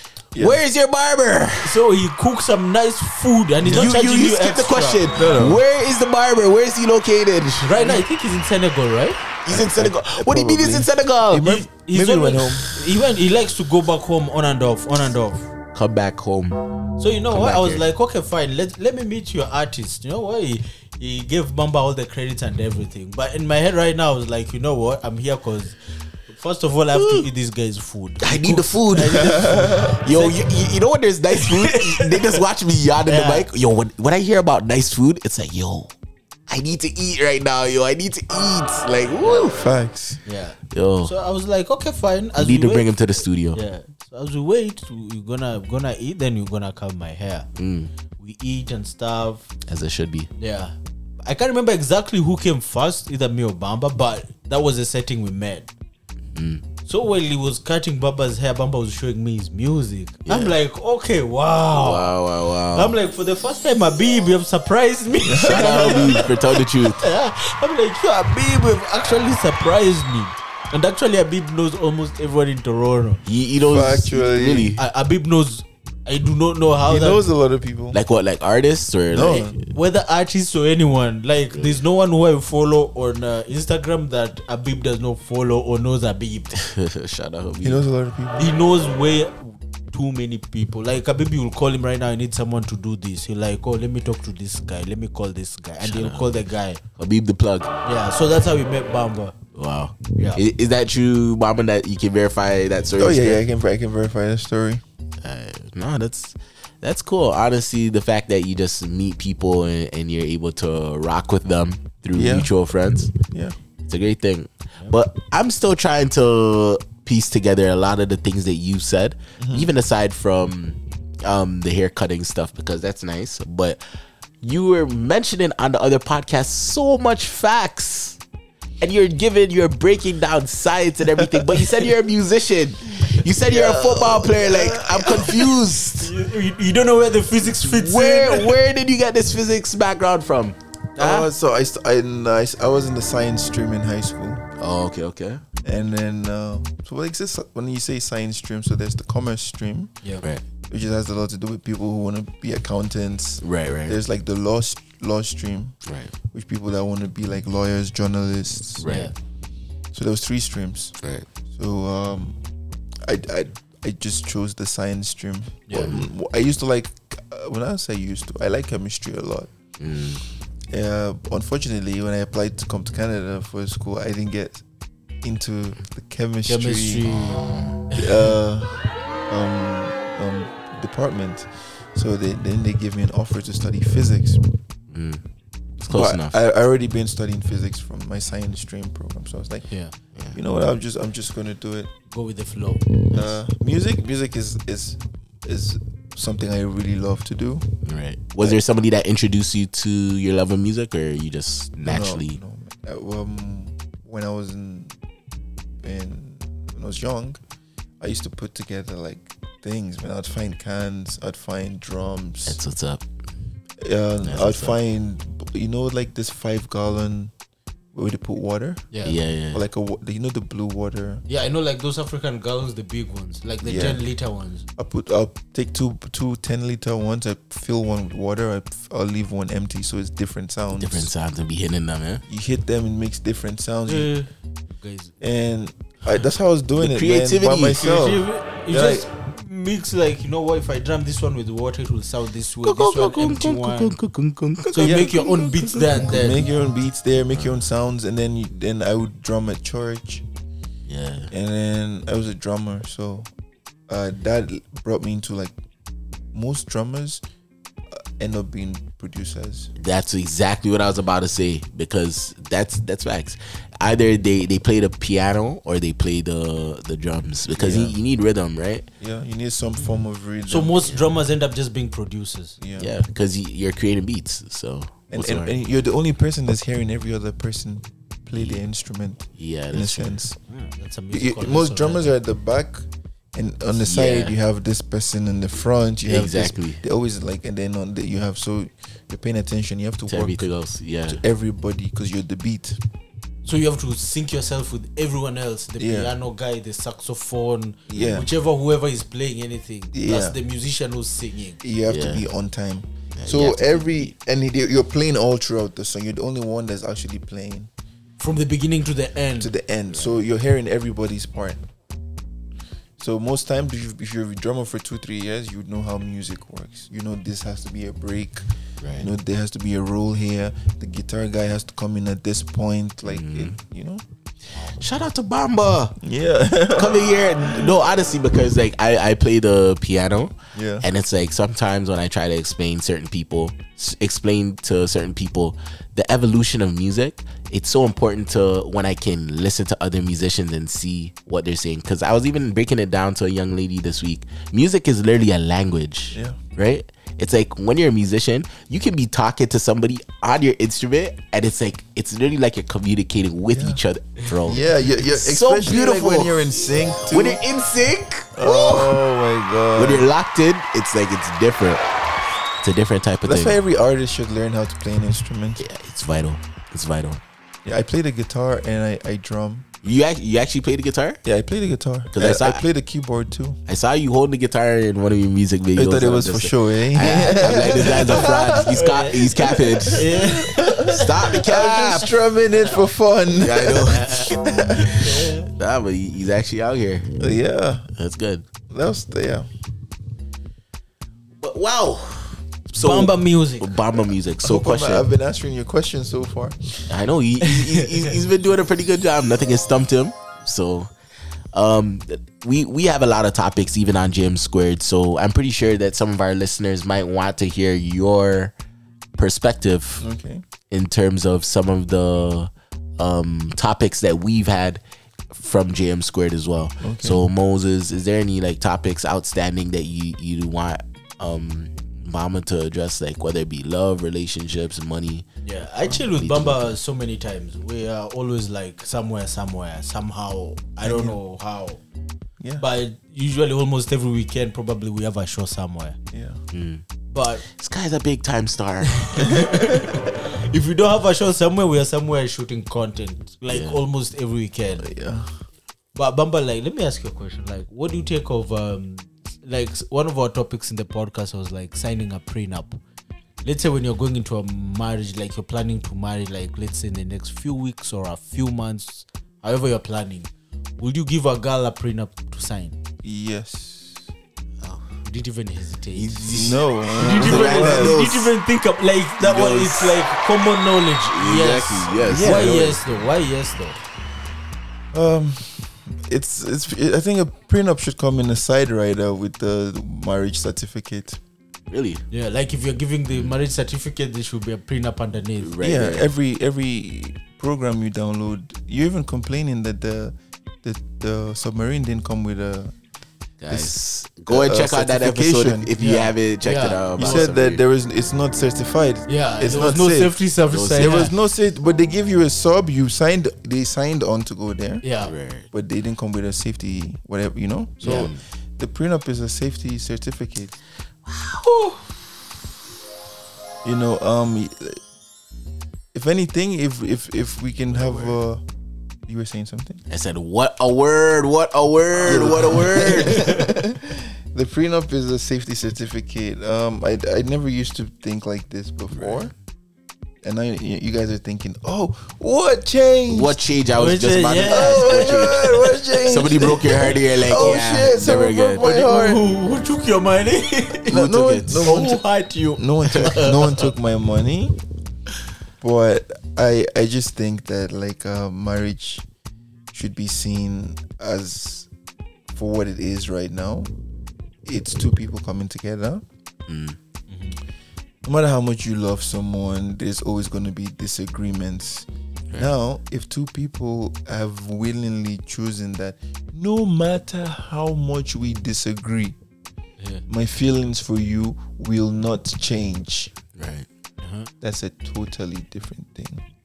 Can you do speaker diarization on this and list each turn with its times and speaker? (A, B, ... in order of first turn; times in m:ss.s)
0:00.3-0:00.6 A
0:00.4-0:01.8 B
0:01.6-0:05.3 C
0:03.6-0:04.0 A
0:03.6-0:08.0 B
0:05.2-0:05.6 A
0:07.6-0:09.3 C
0:09.4-0:11.6 B
0:09.5-0:12.7 A
0:11.4-0:15.5 C
0:15.7-0:16.6 B
0:17.0-0:25.8 C
0:17.3-0:17.8 B
0:26.3-0:30.4 C
0:26.9-0:27.3 B
0:28.2-0:29.4 B
0:29.0-0:30.0 A
0:30.0-0:35.9 B
0:31.4-0:32.4 C
0:33.0-0:33.5 C
0:36.5-0:39.7 B
0:39.2-0:39.5 C
0:39.5-0:40.2 A
0:40.2-0:42.9 C
0:40.7-0:41.1 B
0:42.4-0:43.6 B
0:43.5-0:47.5 C
0:47.6-0:47.9 B
0:48.1-0:49.5 C
0:49.7-0:50.3 B
0:50.4-0:55.7 C
0:56.3-0:56.6 B
0:56.8-1:02.1 C
1:00.2-1:00.6 B
1:01.7-1:03.0 B
1:02.7-1:13.2 C
1:05.2-1:06.3 A
1:05.4-1:07.0 B
1:13.2-1:14.8 B
1:13.6-1:14.8 A
1:14.8-1:17.2 C
1:16.8-1:18.0 A
1:17.9-1:19.7 B
1:19.1-1:19.5 A
1:19.6-1:26.6 C
1:21.5-1:21.8 B
1:26.5-1:27.8 B
1:27.6-1:28.5 A
1:28.4-1:36.8 C
1:35.8-1:36.4 B
1:37.0-1:37.7 B
1:37.8-1:39.4 C
1:39.5-1:43.4 B
1:40.2-1:40.4 C
1:43.0-1:44.8 A
1:45.2-1:53.1 B
1:52.1-1:52.5 A
1:53.3-1:53.6 A
1:53.8-2:03.8 B
1:59.4-1:59.7 A
2:04.4-2:08.2 B
2:08.8-2:16.1 B
2:11.2-2:11.6 A
2:13.3-2:15.8 A
2:16.0-2:18.6 C
2:17.5-2:21.3 B
2:21.0-2:24.4 A
2:24.6-2:25.4 B
2:25.6-2:29.9 A
2:30.7-2:35.8 A
2:33.4-2:34.0 B
2:35.8-2:36.1 B
2:36.3-2:39.0 A
2:38.8-2:39.1 B
2:38.8-2:39.1 C
2:39.9-2:40.9 A
2:41.0-2:41.2 B
2:41.5-2:42.4 A
2:43.0-2:49.5 A
2:45.7-2:45.9 C
2:45.7-2:46.0 B
2:49.8-2:50.2 B
2:50.7-2:54.6 A
2:55.2-2:57.1 A
2:56.5-2:58.1 C
2:57.1-2:57.8 B
2:57.9-3:04.4 A
3:04.9-3:05.2 B
3:05.8-3:09.7 A
3:05.8-3:06.4 B
3:10.3-3:11.9 A
3:12.1-3:13.0 C
3:13.1-3:17.6 A
3:17.8-3:22.4 B
3:21.8-3:24.9 A
3:25.8-3:27.4 A
3:28.0-3:32.6 A
3:32.5-3:33.0 B
3:33.8-3:37.3 A
3:34.2-3:34.8 B
3:37.9-3:38.9 A
3:38.9-3:39.2 C
3:39.0-3:39.6 B
3:39.5-3:41.2 A
3:41.3-3:44.6 C
3:43.6-3:44.0 A
3:44.8-3:51.1 A
3:50.8-3:52.2 B
3:52.3-3:54.1 A
3:53.9-3:55.1 C
3:55.2-3:59.0 A
3:56.8-3:57.9 B
3:57.7-4:04.0 C
4:02.6-4:06.1 B
4:04.7-4:06.4 C
4:04.8-4:10.2 A
4:07.3-4:07.6 B
4:10.8-4:11.3 B
4:11.3-4:13.3 A
4:13.9-4:15.5 A
4:16.3-4:17.2 A
4:17.9-4:19.7 A
4:19.8-4:28.9 B
4:27.5-4:28.0 A
4:29.0-4:30.8 A
4:30.5-4:32.6 C
4:32.6-4:32.9 A
4:32.8-4:35.5 B
4:35.1-4:40.4 A
4:38.3-4:38.6 B
4:39.4-4:40.2 B
4:40.5-4:42.1 C
4:41.1-4:50.5 A
4:43.8-4:44.4 B
4:46.0-4:46.8 B
4:50.1-4:51.2 B
4:51.1-4:52.8 A
4:53.4-5:01.6 C
4:55.8-4:56.1 A
4:57.9-4:58.3 A
4:57.9-4:58.2 B
4:59.9-5:00.4 A
5:01.6-5:07.7 A
5:01.9-5:02.2 B
5:03.1-5:04.1 B
5:08.2-5:09.5 C
5:09.4-5:11.6 A
5:13.0-5:18.4 A
5:18.8-5:19.1 B
5:19.0-5:24.0 A
5:23.0-5:23.6 B
5:24.6-5:26.0 B
5:26.0-5:27.8 A
5:26.7-5:56.4 B
5:30.5-5:30.9 A
5:46.1-5:46.4 A
5:53.5-5:53.8 A
5:54.4-5:57.4 A
5:57.1-5:59.0 B
5:58.3-6:00.1 A
5:59.8-6:01.8 B
6:02.6-6:03.6 B
6:03.2-6:05.6 A
6:05.6-6:07.2 B
6:07.6-6:09.7 A
6:09.8-6:11.2 B
6:11.2-6:13.6 A
6:12.1-6:12.6 B
6:13.7-6:20.2 B
6:15.8-6:25.0 A
6:17.6-6:21.4 C
6:20.8-6:22.2 B
6:23.3-6:27.1 B
6:23.9-6:25.5 C
6:27.2-6:27.9 A
6:28.0-6:28.4 B
6:28.7-6:29.5 A
6:31.4-6:35.1 B
6:32.7-6:33.7 C
6:34.4-6:36.7 A
6:36.9-6:40.9 B
6:37.4-6:38.1 C
6:41.5-6:48.5 B
6:49.2-6:50.0 B
6:50.0-6:50.4 A
6:50.7-7:05.3 B
6:56.8-6:57.3 A
7:05.4-7:11.8 C
7:06.0-7:06.7 B
7:10.8-7:11.2 A
7:12.4-7:12.6 A
7:12.6-7:16.0 C
7:16.1-7:16.4 A
7:16.5-7:16.8 B
7:17.1-7:17.4 C
7:17.4-7:19.1 B
7:19.0-7:24.8 C
7:19.3-7:19.8 A
7:23.5-7:23.8 B
7:24.8-7:25.3 A
7:25.9-7:32.8 C
7:33.4-7:42.8 C
7:43.0-7:44.1 A
7:45.0-7:53.8 C
7:45.9-7:48.3 B
7:46.3-7:48.0 A
7:49.2-7:50.0 B
7:51.1-7:52.9 B
7:52.0-7:52.8 A
7:54.9-8:01.2 A
8:01.7-8:02.0 B
8:02.1-8:05.5 C
8:05.4-8:06.1 B
8:05.6-8:12.7 A
8:13.4-8:17.6 B
8:13.5-8:13.8 A
8:14.3-8:15.7 A
8:15.8-8:17.3 C
8:17.0-8:20.2 A
8:19.1-8:21.1 C
8:20.5-8:21.0 B
8:20.8-8:24.8 A
8:24.8-8:25.1 C
8:25.0-8:25.5 B
8:25.5-8:30.6 A
8:27.8-8:28.2 B
8:31.5-8:31.8 C
8:33.6-8:34.8 A
8:35.9-8:38.4 A
8:37.7-8:38.1 B
8:39.0-8:39.8 A
8:39.9-8:43.4 B
8:42.0-8:49.3 A
8:43.1-8:43.4 C
8:49.0-8:49.3 B
8:50.2-8:53.4 A
8:53.1-8:58.6 B
8:53.8-8:55.4 C
8:54.4-8:59.2 A
8:57.4-8:57.8 C
8:58.6-9:01.0 C
9:00.9-9:04.6 A
9:00.9-9:01.7 B
9:01.6-9:03.7 C
9:05.6-9:09.0 A
9:09.7-9:11.7 A
9:12.3-9:13.7 A
9:14.4-9:16.0 A
9:16.5-9:16.8 B
9:17.1-9:17.4 C
9:18.0-9:29.2 A
9:29.8-9:30.0 C
9:30.1-9:33.1 A
9:33.3-9:33.7 B
9:34.0-9:34.3 C
9:34.4-9:36.2 A